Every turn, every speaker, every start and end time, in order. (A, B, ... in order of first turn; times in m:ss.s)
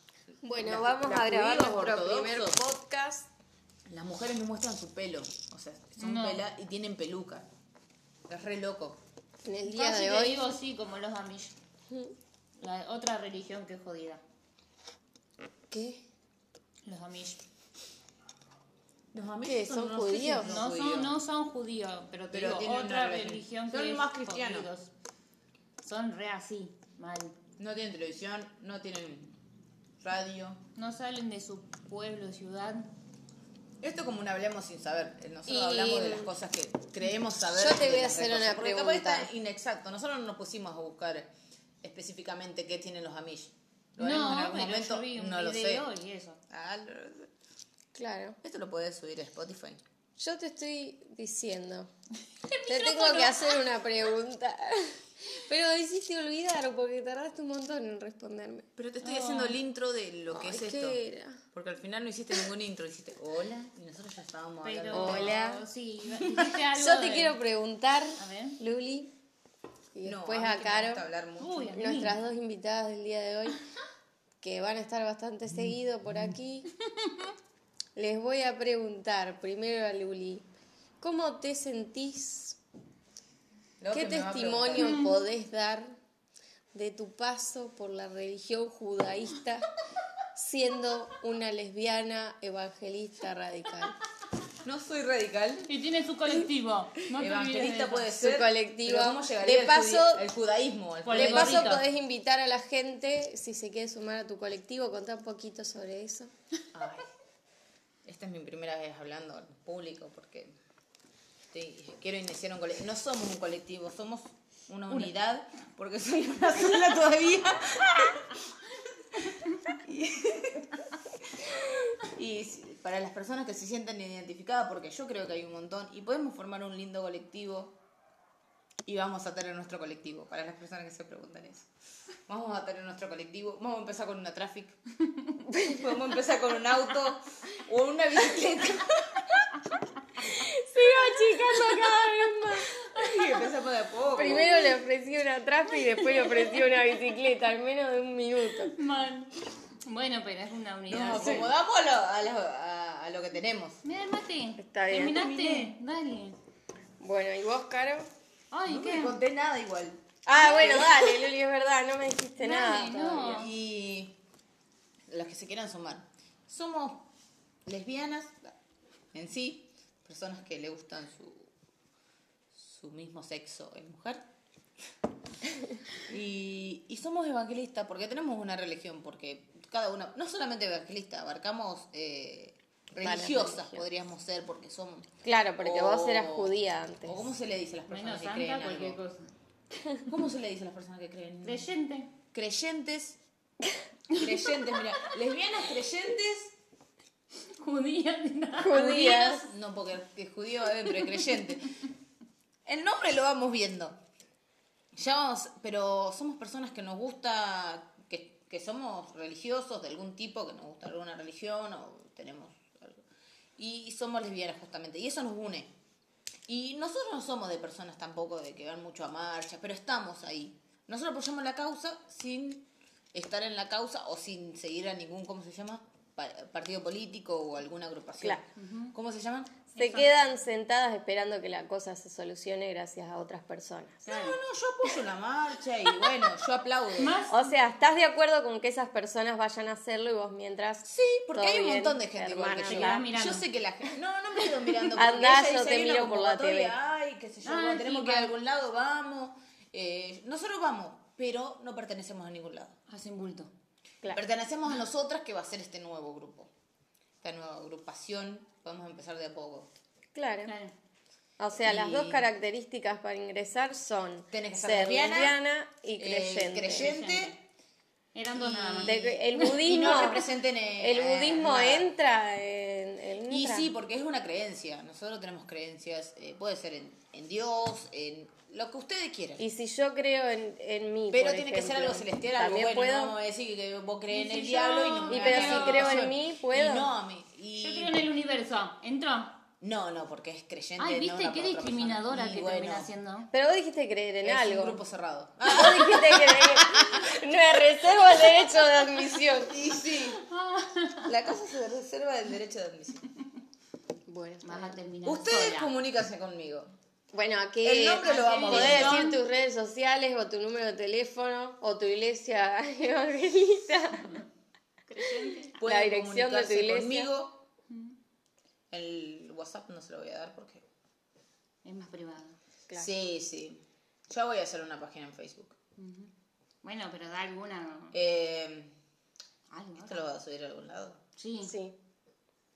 0:00.3-0:02.6 A
0:00.4-0:03.3 B
0:03.8-0:07.5 A
0:06.0-0:06.4 C
0:08.3-0:09.0 A
0:09.4-0:10.5 B
0:09.7-0:11.5 C
0:11.9-0:12.1 B
0:12.6-0:14.2 C
0:15.7-0:16.0 B
0:16.8-0:17.4 C
0:19.1-0:21.1 A
0:19.4-0:20.6 B
0:20.4-0:24.9 C
0:22.3-0:24.7 A
0:25.8-0:27.3 C
0:27.6-0:29.4 A
0:30.0-0:30.6 A
0:30.8-0:32.9 C
0:33.8-0:41.3 A
0:35.5-0:36.3 B
0:37.4-0:39.3 B
0:41.8-0:45.8 A
0:44.0-0:46.4 C
0:46.5-0:47.3 A
0:47.9-0:48.4 B
0:48.4-0:49.8 A
0:50.2-0:51.9 B
0:52.5-0:53.6 C
0:52.6-0:58.6 B
0:58.8-1:05.4 A
0:59.0-0:59.6 C
1:00.3-1:01.4 B
1:04.6-1:07.4 C
1:04.9-1:05.6 B
1:06.1-1:06.5 A
1:06.7-1:09.1 B
1:08.2-1:08.6 C
1:09.9-1:11.0 B
1:10.0-1:11.7 A
1:11.4-1:12.2 C
1:11.7-1:13.6 B
1:14.4-1:16.7 B
1:17.9-1:20.4 B
1:21.0-1:22.6 B
1:23.8-1:25.0 A
1:23.9-1:26.0 B
1:26.7-1:29.7 B
1:30.3-1:34.0 B
1:34.6-1:35.7 A
1:35.7-1:38.1 C
1:37.2-1:41.8 A
1:38.1-1:40.2 B
1:41.0-1:41.8 C
1:41.1-1:46.3 B
1:46.7-1:47.0 A
1:48.0-1:50.5 A
1:51.5-1:58.4 A
1:59.8-2:00.8 A
2:01.4-2:07.7 A
2:08.8-2:11.7 A
2:12.3-2:14.8 A
2:15.5-2:15.8 B
2:15.7-2:19.4 A
2:20.4-2:23.2 B
2:21.6-2:21.9 C
2:22.9-2:24.5 A
2:24.1-2:28.7 B
2:24.1-2:24.7 C
2:26.0-2:26.7 C
2:28.7-2:31.5 C
2:30.9-2:33.8 A
2:31.1-2:31.5 B
2:33.8-2:36.4 C
2:34.6-2:35.2 B
2:35.0-2:35.7 A
2:37.0-2:38.1 B
2:38.5-2:39.2 C
2:38.6-2:40.0 A
2:40.2-2:43.4 B
2:40.4-2:41.2 C
2:42.4-2:43.5 C
2:43.1-2:44.2 A
2:45.1-2:47.1 A
2:47.6-2:48.5 A
2:49.1-2:51.5 A
2:52.5-2:54.2 A
2:56.0-3:09.0 A
3:03.0-3:03.9 B
3:05.2-3:07.2 B
3:07.9-3:09.3 C
3:10.0-3:11.7 A
3:11.4-3:12.1 C
3:12.3-3:13.2 A
3:14.1-3:16.5 A
3:17.6-3:19.0 C
3:18.6-3:19.4 B
3:18.6-3:21.8 A
3:22.6-3:24.0 A
3:24.9-3:33.0 A
3:33.6-3:35.7 A
3:36.5-3:49.6 A
3:48.6-3:48.9 C
3:49.7-3:50.1 C
3:49.7-3:54.0 B
3:54.0-3:54.4 C
3:54.1-3:57.1 A
3:57.0-3:57.5 C
3:57.3-4:03.0 B
4:00.8-4:12.8 A
4:02.7-4:03.4 C
4:04.9-4:06.7 B
4:07.4-4:08.3 C
4:12.9-4:13.5 C
4:14.1-4:16.5 A
4:17.2-4:19.7 A
4:20.1-4:20.5 B
4:20.4-4:20.7 C
4:21.4-4:26.9 B
4:21.6-4:22.3 A
4:24.3-4:25.4 A
4:26.0-4:27.4 A
4:26.7-4:27.3 C
4:28.1-4:29.6 C
4:28.3-4:31.9 A
4:28.8-4:30.2 B
4:30.8-4:33.7 B
4:33.3-4:39.4 A
4:39.4-4:43.1 B
4:41.1-4:48.0 A
4:44.1-4:46.1 C
4:45.1-4:46.9 B
4:47.6-4:49.4 C
4:49.6-4:52.9 A
4:50.8-4:53.3 C
4:53.3-4:54.8 B
4:54.2-4:57.1 A
4:55.4-4:59.5 B
4:59.5-5:00.2 A
5:00.2-5:01.0 C
5:01.0-5:03.0 A
5:04.1-5:04.8 B
5:04.4-5:05.7 C
5:05.0-5:06.7 A
5:07.1-5:14.2 B
5:07.6-5:09.1 A
5:08.0-5:09.2 C
5:14.9-5:15.5 C
5:15.6-5:17.4 A
5:15.6-5:17.1 B
5:17.7-5:17.9 C
5:18.7-5:20.6 A
5:21.6-5:22.4 C
5:22.7-5:25.5 A
5:25.8-5:26.1 C
5:26.6-5:27.9 C
5:27.9-5:28.7 A
5:29.5-5:30.0 C
5:29.8-5:31.0 A
5:31.2-5:31.5 C
5:31.4-5:31.7 B